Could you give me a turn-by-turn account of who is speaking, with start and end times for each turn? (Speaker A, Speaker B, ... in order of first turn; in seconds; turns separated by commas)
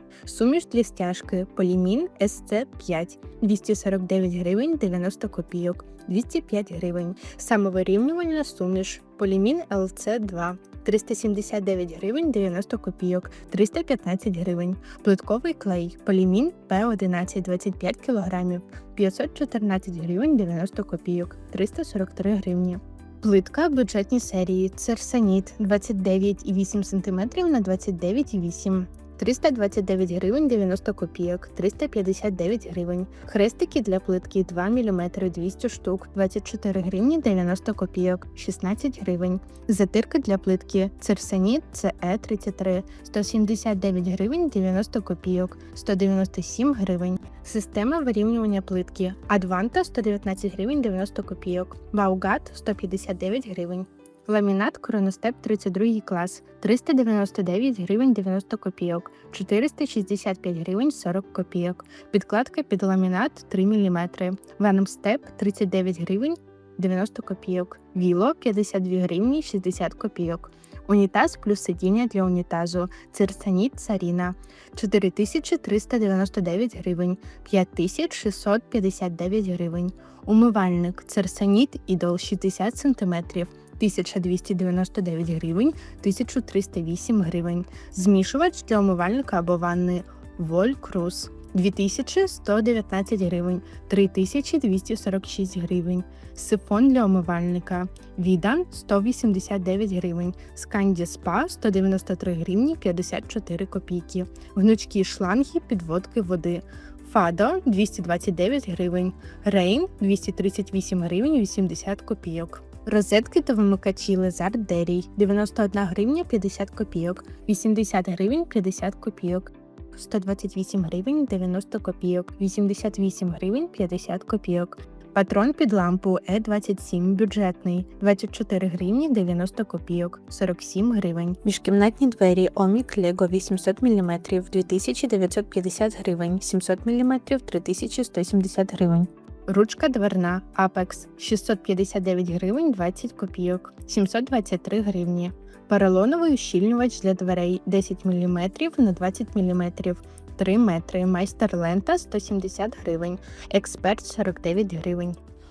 Speaker A: 0.2-155.2